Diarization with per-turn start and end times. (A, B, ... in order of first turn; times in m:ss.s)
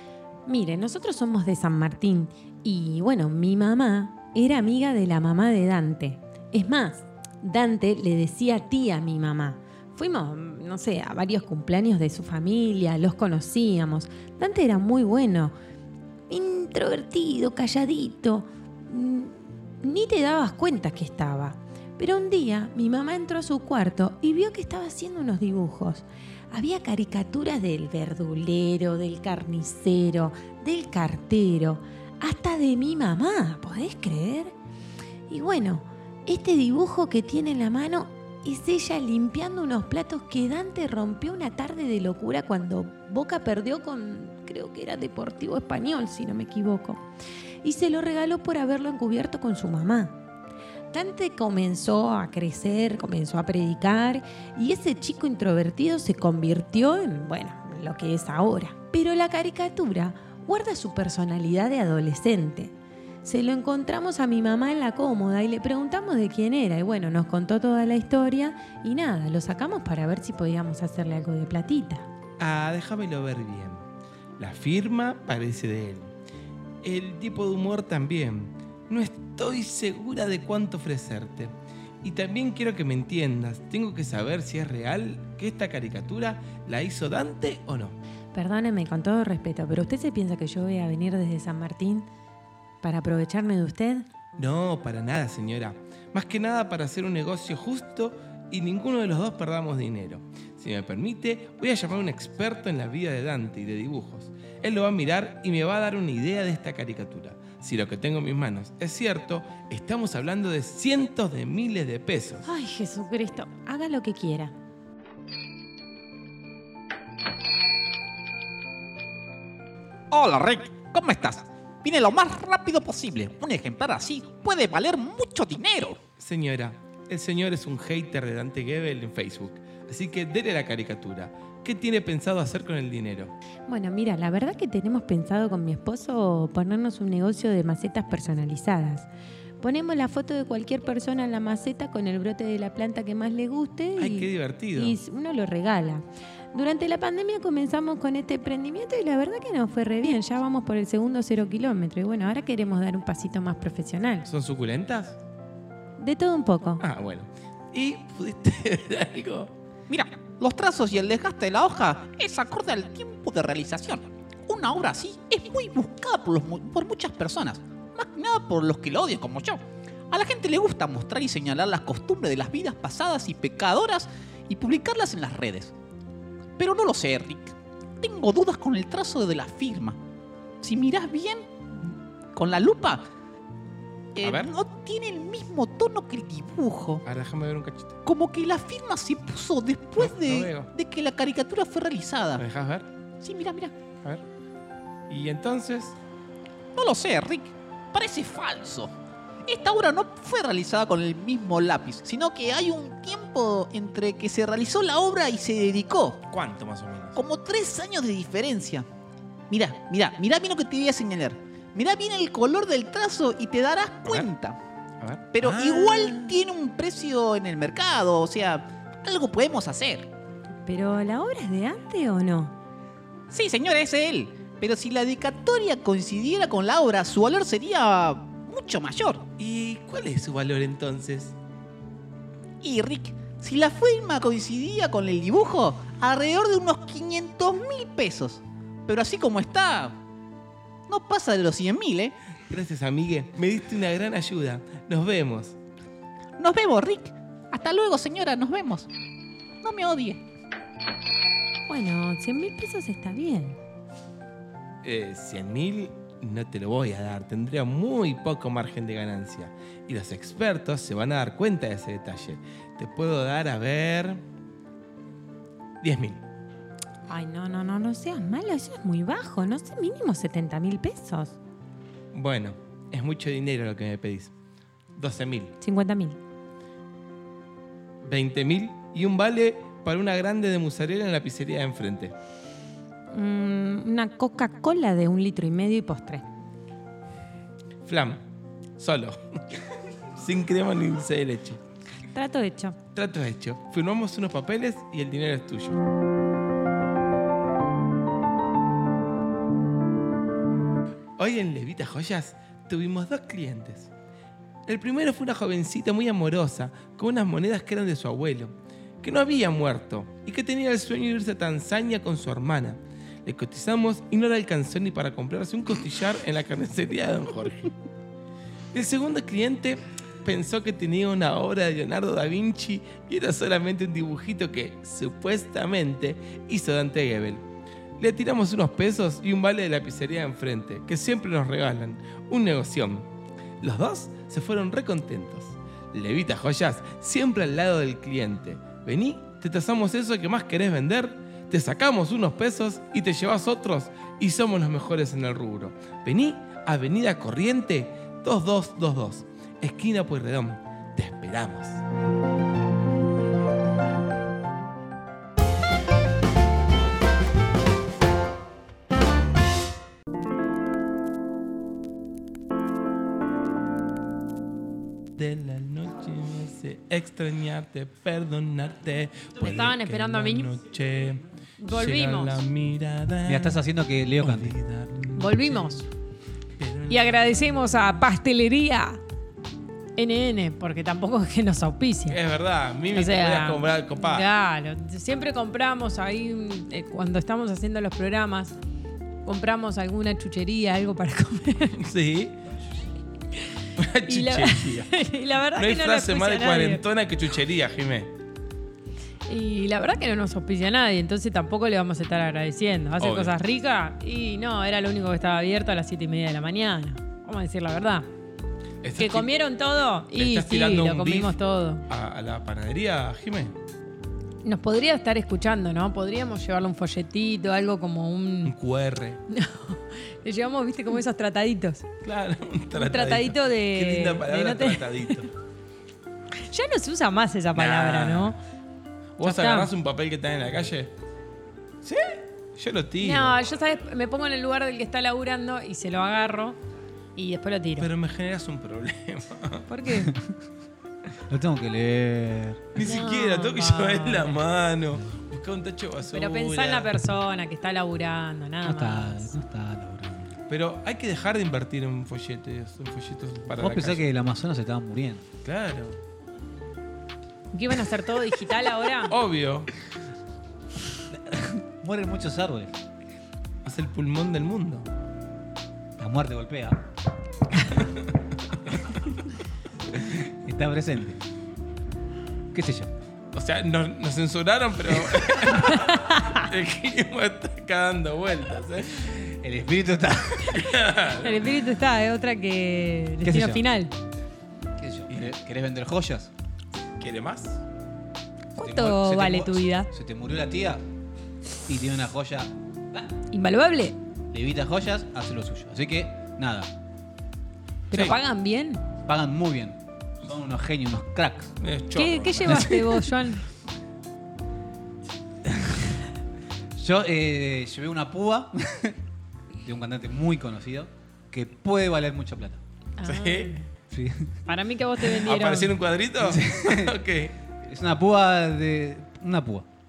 0:00.5-0:15.5 A
0:16.3-0:34.5 A
0:35.3-0:47.0 A
0:47.6-0:50.2 A
0:50.9-1:02.7 A
1:03.2-1:12.1 A
1:12.4-1:13.8 B
1:14.4-1:16.1 B
1:16.8-1:21.5 B
1:22.0-1:28.0 B
1:28.3-1:32.1 A
1:32.8-1:34.1 A
1:34.4-1:52.4 B
1:52.4-1:54.5 A
2:00.1-2:06.0 C
2:06.2-2:13.3 B
2:13.7-2:19.1 A
2:19.6-2:34.3 A
2:24.0-2:25.0 B
2:34.3-2:35.2 B
2:36.0-2:36.8 A
2:36.8-2:39.5 B
2:39.9-2:55.7 C
2:56.6-3:00.0 C
3:00.6-3:01.5 C
3:02.3-3:03.0 C
3:04.1-3:07.0 C
3:04.2-3:04.5 B
3:07.0-3:08.0 B
3:08.0-3:12.4 C
3:10.0-3:10.7 B
3:12.4-3:12.9 B
3:13.2-3:13.7 C
3:15.1-3:16.0 B
3:16.7-3:18.9 C
3:19.4-3:26.2 C
3:26.3-3:27.2 B
3:27.1-3:28.8 C
3:29.5-3:34.6 C
3:35.0-3:36.4 B
3:35.3-3:40.1 C
3:40.6-3:42.5 A
3:43.3-3:49.3 C
3:49.4-3:51.3 B
3:52.6-4:00.0 C
4:00.9-4:02.1 C
4:02.5-4:05.6 B
4:06.4-4:08.9 C
4:09.6-4:10.2 C
4:11.7-4:13.6 A
4:14.8-4:24.2 B
4:25.8-4:26.2 B
4:27.1-4:31.4 A
4:32.1-4:34.3 B
4:35.0-4:35.5 B
4:35.6-4:36.2 A
4:38.0-4:42.1 B
4:43.1-4:46.2 A
4:47.8-4:48.2 B
4:48.8-4:49.4 B
4:50.2-4:51.6 B
4:52.1-4:52.8 A
4:52.9-4:55.8 B
5:01.2-5:03.9 B
5:04.7-5:17.7 B
5:18.7-5:27.4 B
5:28.0-5:33.0 B
5:33.6-5:51.8 B
6:05.2-6:13.6 B
6:09.4-6:10.4 D
6:11.6-6:12.3 D
6:13.2-6:14.5 E
6:14.2-6:15.8 B
6:15.2-6:15.8 D
6:16.6-6:17.6 B
6:16.9-6:18.8 D
6:17.3-6:19.0 A
6:20.0-6:22.1 D
6:21.0-6:22.1 A
6:22.1-6:24.3 B
6:22.9-6:28.5 D
6:28.0-6:28.4 A
6:29.3-6:31.7 D
6:29.7-6:30.9 A
6:31.8-6:32.4 B
6:33.8-6:34.9 B
6:34.9-6:36.7 D
6:35.5-6:38.1 B
6:36.0-6:36.6 A
6:39.3-6:48.0 D
6:43.0-6:43.4 B
6:46.4-6:47.2 A
6:48.8-6:49.3 B
6:49.0-6:51.8 D
6:50.1-6:53.5 B
6:50.7-6:51.1 A
6:54.4-6:58.5 D
6:58.4-6:59.2 B
7:00.2-7:01.8 D
7:00.5-7:01.7 A
7:02.0-7:05.3 B
7:02.9-7:04.8 D
7:03.2-7:03.5 A
7:06.5-7:08.2 A
7:06.5-7:08.3 D
7:07.5-7:08.4 B
7:09.2-7:10.9 B
7:09.2-7:09.6 D
7:11.8-7:12.1 E
7:12.6-7:13.4 B
7:13.0-7:16.5 D
7:17.2-7:17.8 D
7:17.8-7:19.7 B
7:19.7-7:20.1 D
7:19.7-7:20.0 A
7:20.0-7:20.3 E
7:21.3-7:22.8 E
7:22.7-7:26.9 B
7:22.8-7:23.9 D
7:22.9-7:24.0 A
7:26.1-7:28.7 D
7:27.6-7:29.1 A
7:28.6-7:30.3 E
7:30.5-7:34.0 B
7:33.5-7:35.2 E
7:35.4-7:36.0 B
7:37.6-7:39.1 D
7:37.6-7:39.1 A
7:39.1-7:39.7 B
7:41.1-7:42.7 E
7:43.6-7:44.8 B
7:46.0-7:46.8 E
7:49.9-7:51.2 E
7:52.5-7:52.9 E
7:53.3-7:59.3 B
7:59.3-8:00.7 E
8:00.5-8:01.6 B
8:01.2-8:03.9 D
8:01.4-8:03.6 A
8:03.2-8:03.7 E
8:04.8-8:06.3 E
8:07.0-8:07.6 B
8:08.6-8:09.9 D
8:08.6-8:10.8 E
8:09.2-8:09.7 A
8:11.6-8:13.1 E
8:13.3-8:13.9 D
8:14.3-8:16.7 E
8:17.9-8:18.7 D
8:17.9-8:18.2 B
8:19.0-8:21.5 E
8:21.6-8:23.0 B
8:22.0-8:23.4 A
8:22.0-8:23.4 D
8:25.4-8:25.8 E
8:26.8-8:29.0 E
8:29.6-8:32.6 E
8:33.0-8:33.5 D
8:33.0-8:33.6 B
8:33.9-8:34.4 E
8:34.5-8:35.7 D
8:35.2-8:37.3 B
8:36.2-8:36.9 E
8:37.6-8:39.6 E